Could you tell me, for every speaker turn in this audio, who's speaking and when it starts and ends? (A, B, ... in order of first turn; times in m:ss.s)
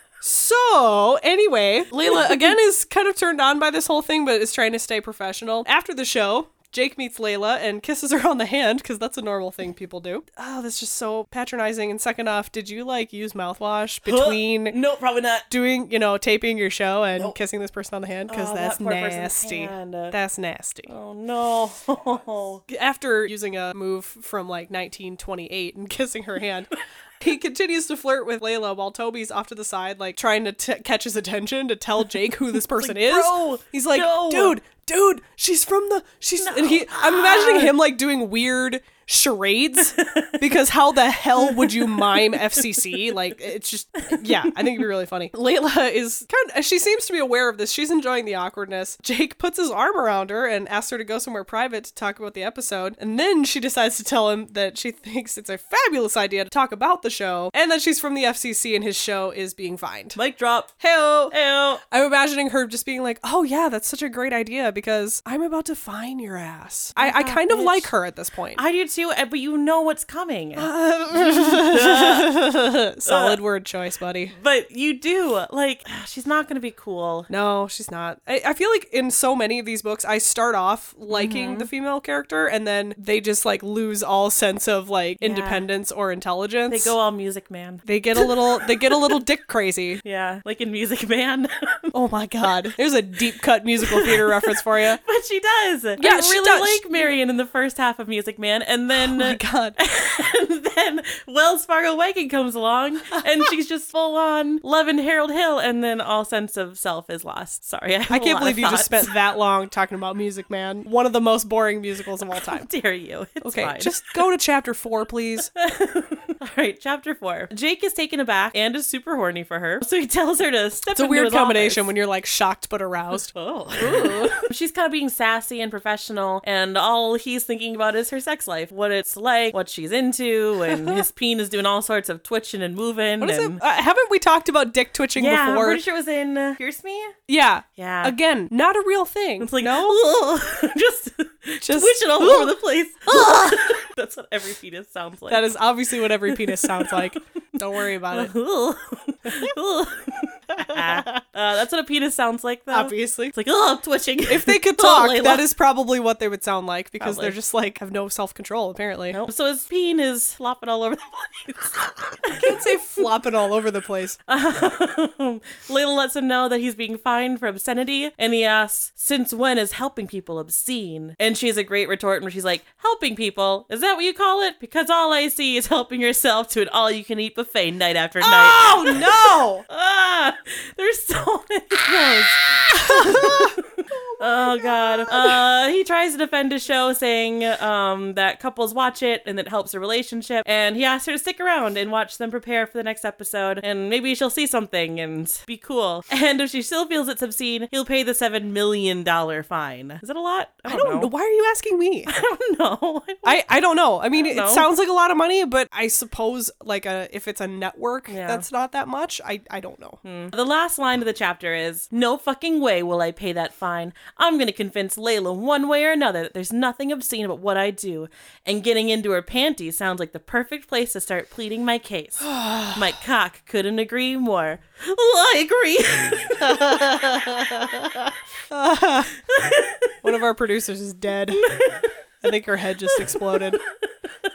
0:00.2-0:14.8 A
0:02.0-0:02.5 B
0:14.0-0:15.5 B
0:15.5-0:20.9 A
0:18.3-0:20.2 B
0:20.9-0:22.6 B
0:22.7-1:00.2 A
0:32.7-0:34.6 B
0:36.4-0:37.8 B
0:39.9-0:40.4 B
0:41.4-0:42.8 B
1:00.1-1:01.8 B
1:00.8-1:01.4 A
1:01.9-1:08.6 A
1:07.0-1:07.9 B
1:08.6-1:12.4 B
1:10.6-1:14.4 A
1:13.0-1:13.4 B
1:14.3-1:17.3 B
1:17.3-1:26.9 A
1:21.1-1:21.7 B
1:25.2-1:25.7 B
1:26.7-1:29.1 B
1:27.8-1:30.0 A
1:30.0-1:31.9 B
1:31.9-1:35.0 A
1:33.8-1:49.1 B
1:36.0-1:37.1 A
1:38.9-1:39.8 A
1:48.1-1:52.7 A
1:52.6-1:54.1 B
1:53.4-1:55.5 A
1:55.6-2:01.9 B
2:01.0-2:04.3 A
2:03.3-2:13.6 B
2:10.6-2:11.0 A
2:13.2-2:15.8 A
2:15.2-2:17.2 B
2:17.3-2:20.0 A
2:17.8-2:18.1 B
2:19.4-2:25.5 B
2:21.6-2:23.6 A
2:25.3-2:28.3 A
2:26.3-2:27.2 B
2:28.1-2:35.5 B
2:29.3-2:29.5 A
2:30.6-2:31.2 A
2:32.7-2:33.4 A
2:34.3-2:39.2 A
2:37.0-2:37.4 B
2:39.1-2:42.7 B
2:42.3-2:44.2 A
2:44.3-3:21.1 B
2:58.2-2:59.6 A
3:02.7-3:05.4 A
3:20.7-3:22.1 A
3:22.1-3:23.4 B
3:23.2-3:30.0 A
3:24.1-3:24.7 B
3:28.1-3:28.5 B
3:30.0-3:47.7 B
3:42.2-3:42.8 A
3:46.4-3:49.1 A
3:49.3-3:50.0 B
3:50.0-3:51.5 A
3:51.4-3:51.9 B
3:52.2-3:53.6 A
3:53.0-3:53.4 B